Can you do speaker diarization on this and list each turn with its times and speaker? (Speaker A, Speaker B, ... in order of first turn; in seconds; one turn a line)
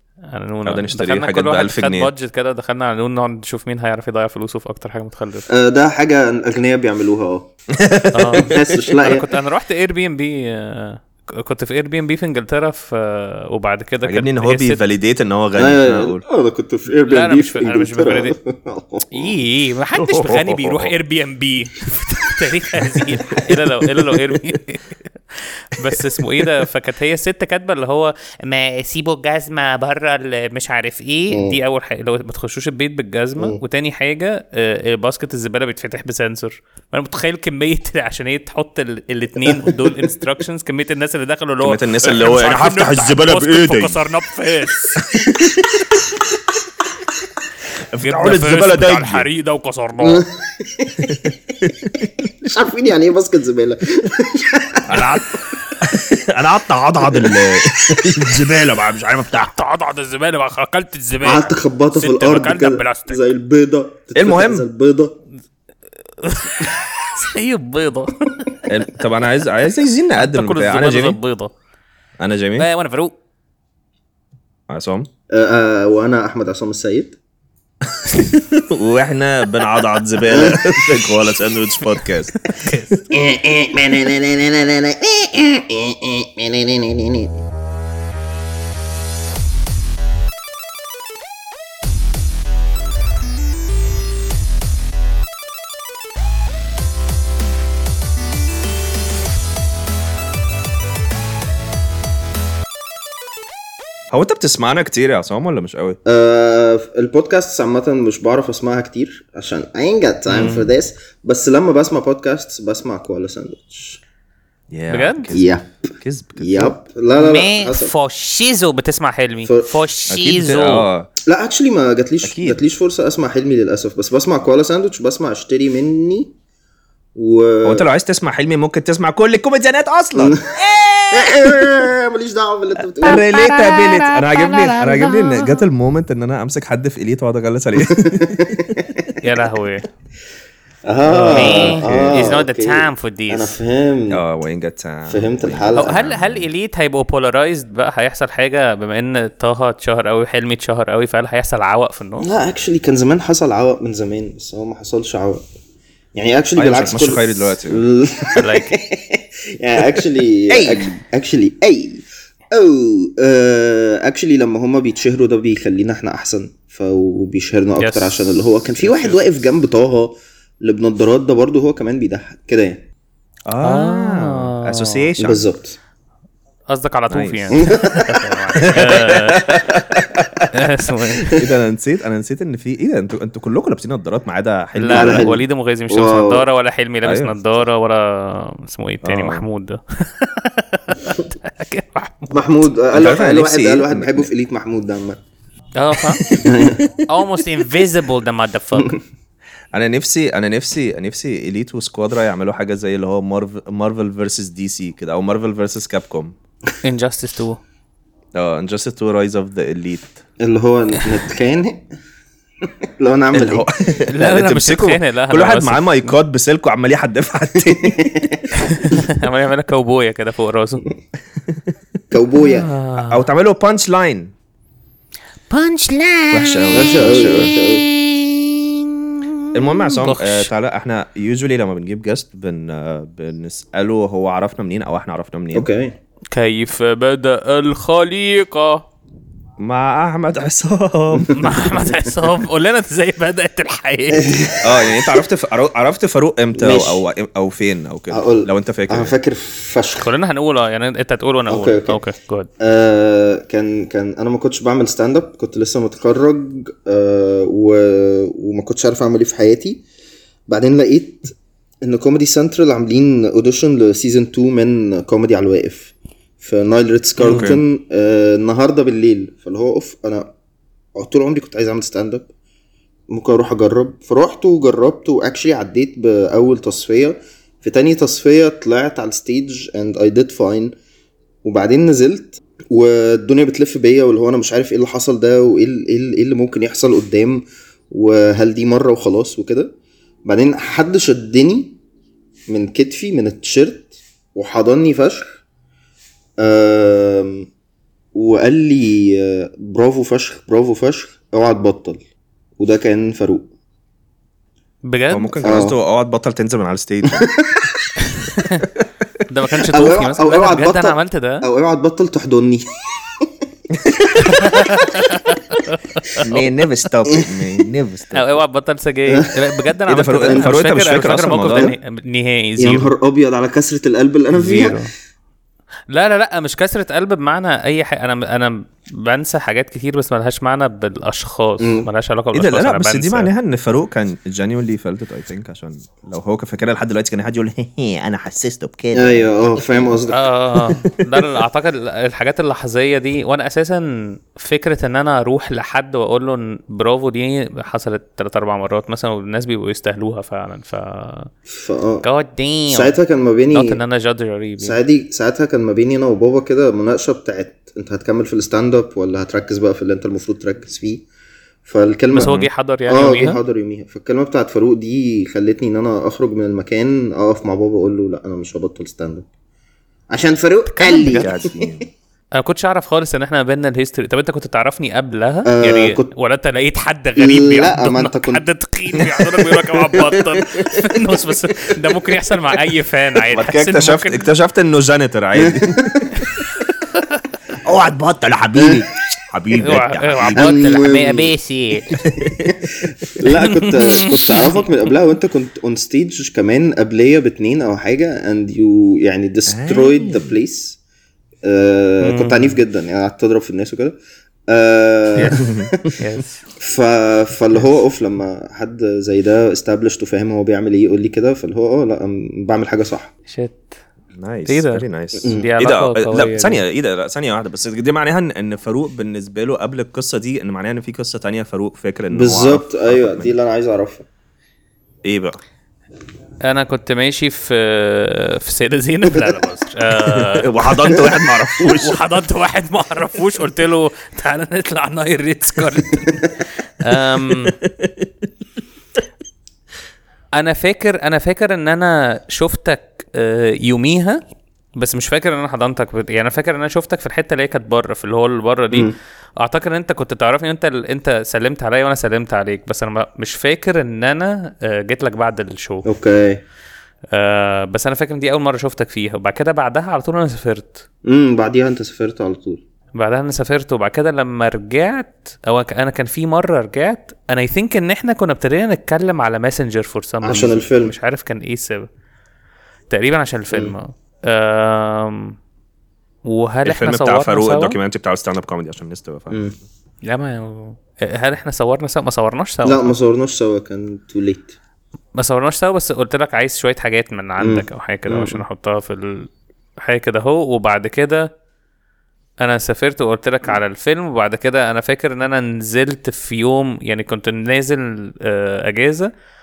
Speaker A: 0.3-5.5
Speaker B: 0.6-2.1
Speaker C: 5.5-7.5
Speaker B: 7.8-8.6
Speaker A: 8.1-14.8
Speaker C: 8.3-9.3
Speaker B: 14.0-16.2
Speaker C: 15.6-19.4
Speaker A: 16.9-18.3
Speaker A: 19.1-45.0
Speaker B: 19.9-20.9
Speaker C: 31.3-31.6
Speaker C: 39.5-39.7
Speaker B: 41.6-44.0
Speaker B: 45.0-45.6
Speaker B: 47.9-49.3
Speaker A: 48.0-50.2
Speaker C: 50.0-51.3
Speaker B: 51.0-52.0
Speaker C: 52.4-55.0
Speaker B: 54.9-59.5
Speaker C: 57.1-57.4
Speaker A: 59.4-63.2
Speaker C: 61.2-65.2
Speaker B: 64.1-64.7
Speaker A: 66.2-68.5
Speaker B: 68.7-71.2
Speaker A: 70.2-71.5
Speaker B: 72.2-72.7
Speaker A: 72.6-73.1
Speaker B: 74.7-75.1
Speaker C: 75.3-77.2
Speaker B: 78.1-82.4
Speaker C: 80.3-80.8
Speaker A: 82.5-83.1
Speaker C: 83.1-87.4
Speaker B: 104.1-106.0
Speaker C: 106.0-114.0
Speaker B: 110.3-110.7
Speaker B: 114.7-116.8
Speaker A: 114.9-115.3
Speaker C: 115.3-115.7
Speaker C: 116.4-117.9
Speaker A: 117.2-120.9
Speaker B: 120.1-121.1
Speaker C: 121.2-126.3
Speaker B: 122.2-122.6
Speaker C: 127.1-127.9
Speaker B: 127.6-131.5
Speaker C: 130.1-133.2
Speaker B: 133.0-138.7
Speaker A: 133.3-135.0
Speaker C: 137.8-139.1
Speaker A: 139.2-139.9
Speaker C: 140.8-144.2
Speaker A: 141.1-143.6
Speaker B: 141.2-142.3
Speaker B: 144.1-146.5
Speaker C: 145.1-146.0
Speaker A: 145.8-152.3
Speaker C: 152.2-155.4
Speaker C: 156.1-172.8
Speaker B: 156.6-157.8
Speaker A: 158.3-158.8
Speaker B: 160.5-161.0
Speaker A: 167.8-168.3
Speaker A: 168.8-169.2
Speaker B: 173.5-175.5
Speaker A: 173.6-175.1
Speaker C: 175.2-175.8
Speaker A: 176.7-179.7
Speaker B: 177.1-177.7
Speaker C: 177.6-178.2
Speaker B: 178.6-180.5
Speaker A: 180.5-181.4
Speaker B: 181.3-185.3
Speaker A: 184.7-192.7
Speaker C: 184.9-186.4
Speaker B: 187.0-187.3
Speaker B: 189.0-189.4
Speaker C: 192.3-195.2
Speaker B: 192.9-194.3
Speaker A: 195.8-196.4
Speaker C: 196.3-197.0
Speaker A: 197.1-198.9
Speaker B: 199.7-206.3
Speaker A: 206.8-207.6
Speaker B: 208.3-210.2
Speaker C: 210.4-211.8
Speaker C: 212.6-213.7
Speaker B: 213.3-218.0
Speaker A: 214.1-216.1
Speaker C: 217.7-218.9
Speaker A: 218.5-220.9
Speaker C: 222.1-222.7
Speaker A: 222.4-223.2
Speaker B: 223.0-224.3
Speaker A: 225.5-226.8
Speaker B: 226.3-227.5
Speaker C: 226.7-227.8
Speaker A: 227.7-229.2
Speaker B: 229.5-235.7
Speaker A: 230.0-230.5
Speaker C: 235.5-236.0
Speaker A: 236.3-238.8
Speaker B: 239.6-241.6
Speaker A: 241.3-244.5
Speaker C: 244.1-245.2
Speaker B: 244.6-249.1
Speaker C: 246.6-247.0
Speaker C: 248.1-250.1
Speaker A: 250.0-252.5
Speaker C: 251.5-252.0
Speaker C: 252.6-259.8
Speaker C: 260.5-270.3
Speaker B: 267.2-267.6
Speaker C: 270.9-272.3
Speaker C: 273.1-280.7
Speaker C: 281.4-289.7
Speaker C: 290.2-291.8
Speaker C: 292.5-295.4
Speaker C: 296.4-297.5
Speaker C: 298.1-302.0
Speaker C: 302.6-303.5
Speaker A: 304.8-305.6
Speaker B: 305.1-307.2
Speaker C: 305.4-305.7
Speaker C: 307.1-307.9
Speaker A: 308.2-308.7
Speaker A: 309.3-311.5
Speaker C: 309.7-313.3
Speaker C: 314.0-315.0
Speaker A: 314.2-316.3
Speaker B: 316.2-318.4
Speaker A: 318.1-322.9
Speaker B: 319.9-321.7
Speaker C: 320.3-320.6
Speaker C: 321.5-321.8
Speaker C: 322.6-324.8
Speaker A: 324.3-324.9
Speaker A: 325.9-333.3
Speaker C: 331.6-331.9
Speaker B: 332.3-339.8
Speaker C: 338.9-340.2
Speaker A: 340.1-351.3
Speaker B: 340.6-341.2
Speaker C: 351.5-352.1
Speaker A: 352.0-352.9
Speaker C: 352.7-353.8
Speaker A: 353.5-354.8
Speaker C: 354.6-361.1
Speaker C: 361.6-362.3
Speaker A: 362.1-363.4
Speaker B: 362.2-362.5
Speaker C: 362.9-369.2
Speaker C: 370.1-371.8
Speaker A: 370.7-371.3
Speaker B: 371.1-371.9
Speaker A: 372.3-384.2
Speaker C: 375.4-376.1
Speaker C: 377.2-378.4
Speaker C: 379.9-380.4
Speaker B: 383.3-386.1
Speaker C: 385.4-386.1
Speaker B: 387.6-390.6
Speaker C: 388.6-388.8
Speaker A: 389.5-391.9
Speaker C: 390.4-391.3
Speaker B: 392.0-392.5
Speaker C: 392.4-400.8
Speaker A: 393.4-394.6
Speaker B: 399.5-400.3
Speaker C: 401.4-403.9
Speaker A: 402.2-402.5
Speaker C: 404.5-405.9
Speaker B: 405.2-405.7
Speaker A: 406.0-406.4
Speaker C: 406.6-413.1
Speaker A: 413.3-413.7
Speaker B: 414.1-423.3
Speaker A: 414.5-416.6
Speaker C: 415.2-415.5
Speaker C: 422.1-424.0
Speaker B: 425.0-425.4
Speaker A: 426.4-437.5
Speaker B: 430.1-432.0
Speaker B: 437.4-438.1
Speaker A: 440.4-444.2
Speaker A: 444.8-455.9
Speaker C: 455.8-456.4
Speaker A: 457.1-460.8
Speaker C: 461.1-462.6
Speaker A: 462.9-471.9
Speaker C: 470.2-470.9
Speaker A: 472.9-475.3
Speaker C: 473.5-473.8
Speaker A: 476.2-477.8
Speaker B: 476.6-479.5
Speaker C: 479.3-479.5
Speaker A: 480.0-482.9
Speaker C: 482.6-484.5
Speaker A: 485.1-489.3
Speaker C: 487.4-488.4
Speaker A: 489.8-491.3
Speaker A: 492.4-499.1